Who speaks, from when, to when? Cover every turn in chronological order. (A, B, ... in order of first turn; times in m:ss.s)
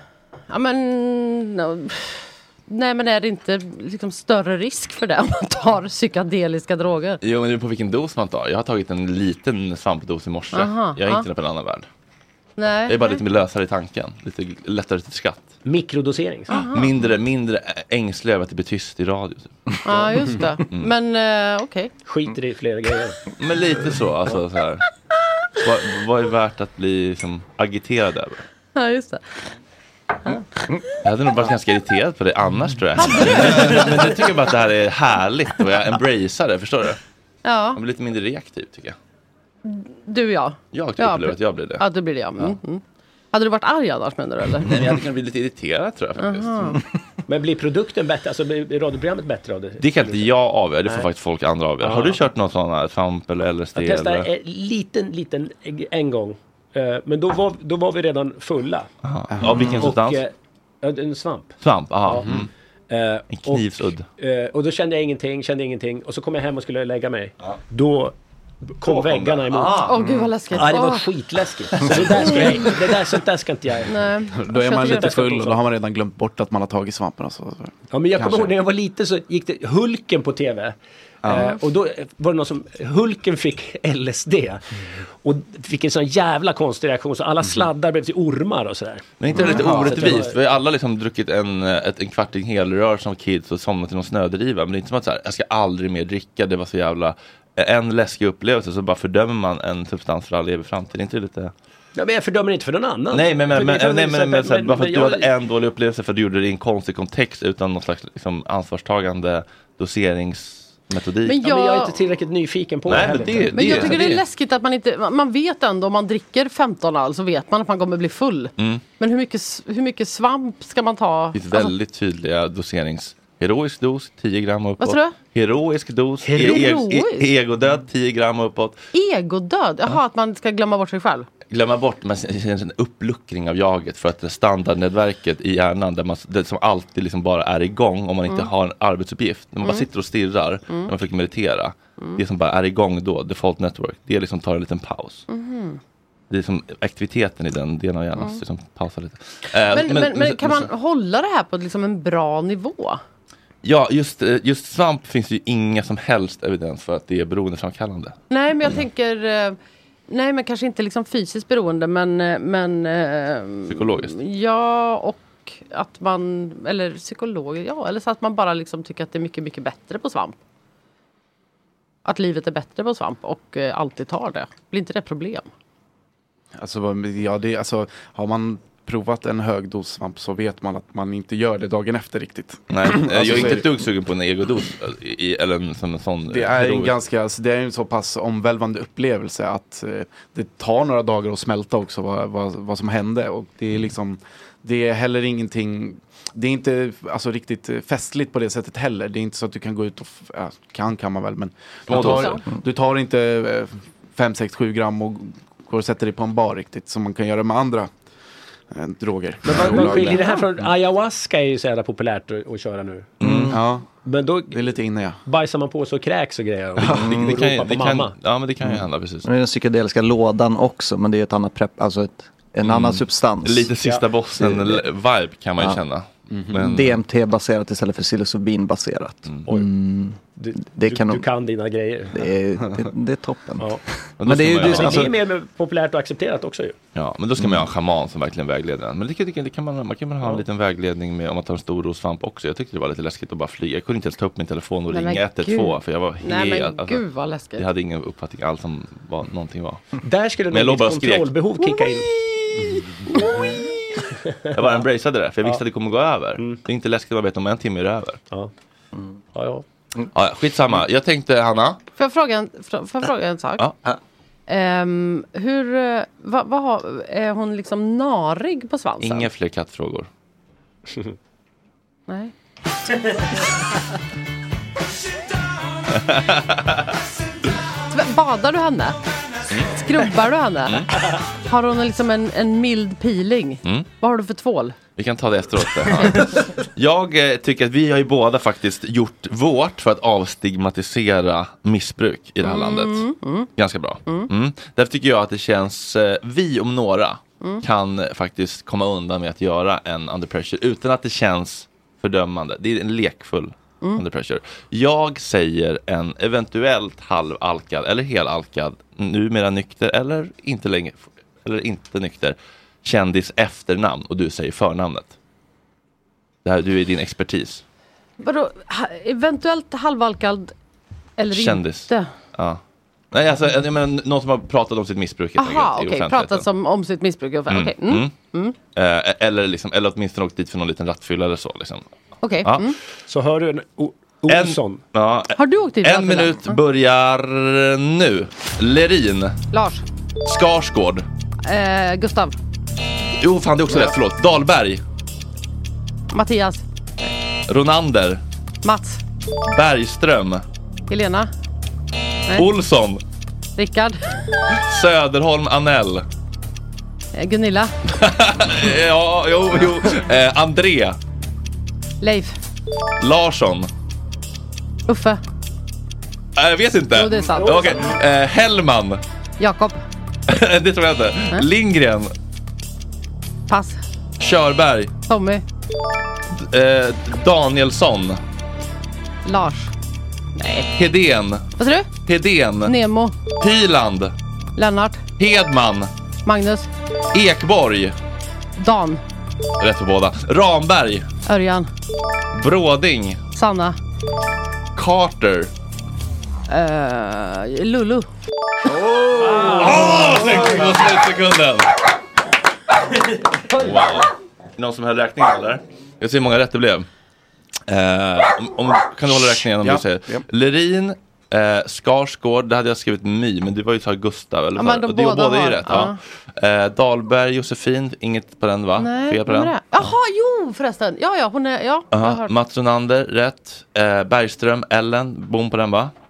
0:00.5-0:07.2 A
0:07.2-0:11.9 B
0:10.5-0:11.2 A
0:12.6-0:13.2 A
0:12.9-0:15.5 B
0:15.6-0:16.6 C
0:16.5-0:16.9 A
0:16.5-0:19.6 B
0:19.8-0:21.9 A
0:20.2-0:20.9 B
0:22.0-0:23.2 C
0:23.4-0:24.8 B
0:25.6-0:28.4 B
0:28.7-0:29.5 A
0:31.0-0:37.0 B
0:33.0-0:33.9 A
0:37.4-0:37.8 A
0:37.7-0:39.0 B
0:39.6-0:42.8 A
0:40.7-0:41.8 B
0:43.3-0:44.8 A
0:44.6-0:46.8 B
0:46.2-0:46.8 A
0:47.3-0:50.3 C
0:49.8-0:54.3 B
0:51.8-0:52.2 C
0:53.7-0:58.9 C
0:59.0-1:00.2 B
0:59.3-0:59.9 D
0:59.7-1:02.3 C
1:01.6-1:02.5 B
1:02.9-1:08.1 C
1:03.3-1:04.0 B
1:08.7-1:09.8 C
1:08.8-1:10.0 B
1:09.9-1:11.1 A
1:10.0-1:10.3 D
1:10.5-1:13.9 C
1:12.3-1:12.6 A
1:13.9-1:15.2 A
1:14.3-1:18.6 D
1:14.7-1:15.6 C
1:17.9-1:20.7 C
1:21.2-1:21.5 D
1:21.2-1:29.0 C
1:29.2-1:41.5 B
1:29.3-1:30.2 D
1:29.6-1:30.4 C
1:42.0-1:45.3 C
1:43.1-1:51.4 B
1:51.2-1:52.0 A
1:51.4-1:54.1 C
1:52.8-1:54.2 B
1:53.5-2:01.7 A
1:58.6-1:58.8 B
2:01.3-2:08.8 B
2:04.8-2:05.2 A
2:06.2-2:06.7 C
2:06.4-2:07.3 A
2:08.9-2:11.3 A
2:11.5-2:25.2 B
2:25.3-2:25.8 A
2:26.3-2:30.7 B
2:29.6-2:33.0 A
2:33.6-2:38.8 B
2:38.3-2:39.6 A
2:40.1-2:50.4 A
2:43.7-2:44.2 B
2:52.0-2:55.5 A
2:56.6-3:03.7 D
3:02.7-3:07.0 B
3:06.3-3:27.9 D
3:21.9-3:22.4 B
3:28.7-3:30.7 D
3:29.4-3:33.1 C
3:29.5-3:30.1 B
3:33.2-3:33.6 B
3:33.2-3:33.5 E
3:33.5-3:33.8 D
3:34.0-3:34.6 C
3:34.5-3:35.2 D
3:35.2-3:38.1 C
3:36.8-3:39.2 B
3:39.2-3:43.7 E
3:42.6-3:47.0 B
3:44.4-3:44.8 E
3:46.5-3:51.2 E
3:50.4-3:52.2 C
3:52.1-3:55.1 E
3:54.2-3:55.1 B
3:54.6-3:56.8 C
3:56.9-4:07.0 B
4:04.9-4:07.6 A
4:07.6-4:09.8 B
4:10.0-4:12.1 C
4:10.5-4:11.3 B
4:14.3-4:14.6 C
4:14.5-4:18.2 B
4:19.3-4:19.6 C
4:20.1-4:21.8 B
4:22.0-4:23.7 A
4:24.5-4:29.3 A
4:29.0-4:30.1 B
4:36.0-4:36.7 B
4:37.9-4:39.0 A
4:39.5-4:39.8 B
4:39.7-4:40.9 A
4:40.6-4:40.9 B
4:41.4-4:44.8 A
4:45.0-5:15.1 B
4:46.0-4:46.2 A
4:52.4-4:53.5 A
5:16.4-5:17.6 B
5:18.2-5:20.5 A
5:21.2-5:22.1 A
5:21.3-5:22.6 B
5:23.1-5:26.4 B
5:25.4-5:28.6 A
5:27.5-5:28.1 B
5:28.7-5:31.8 B
5:32.2-5:32.8 A
5:32.4-5:32.8 B
5:33.1-5:34.8 C
5:34.3-5:39.4 B
5:35.4-5:36.6 A
5:39.5-5:39.8 A
5:40.2-5:41.0 B
5:41.4-5:42.3 A
5:43.2-5:44.8 B
5:46.1-5:46.6 A
5:47.5-5:48.2 B
5:48.6-5:49.0 A
5:49.5-5:50.4 B
5:50.9-5:51.3 A
5:52.3-5:53.0 B
5:53.6-5:54.1 A
5:54.6-5:56.0 B
5:57.1-5:57.7 A
5:57.9-6:01.0 B
6:02.0-6:02.4 A
6:03.0-6:03.7 B
6:04.9-6:05.2 A
6:06.4-6:09.0 B
6:06.9-6:07.8 A
6:07.3-6:08.0 C
6:09.4-6:09.8 A
6:10.3-6:12.1 B
6:13.5-6:13.8 A
6:14.2-6:14.9 B
6:15.1-6:15.4 A
6:16.3-6:18.2 B
6:19.2-6:19.7 A
6:20.4-6:20.7 A
6:20.8-6:21.5 B
6:21.6-6:22.0 A
6:22.0-6:22.8 B
6:22.6-6:23.1 A
6:23.4-6:24.1 B
6:24.6-6:25.0 A
6:25.2-6:25.9 B
6:26.2-6:26.7 A
6:27.1-6:27.9 B
6:28.6-6:29.0 A
6:29.6-6:31.1 B
6:31.2-6:31.7 A
6:32.3-6:33.2 B
6:33.3-6:33.8 A
6:34.8-6:35.5 B
6:36.5-6:38.1 A
6:39.2-6:41.7 B
6:39.2-6:40.0 D
6:43.5-6:46.9 B
6:47.7-6:59.9 B
6:49.1-6:50.2 D
6:54.6-6:56.0 A
6:58.8-7:02.3 A
7:01.9-7:05.9 B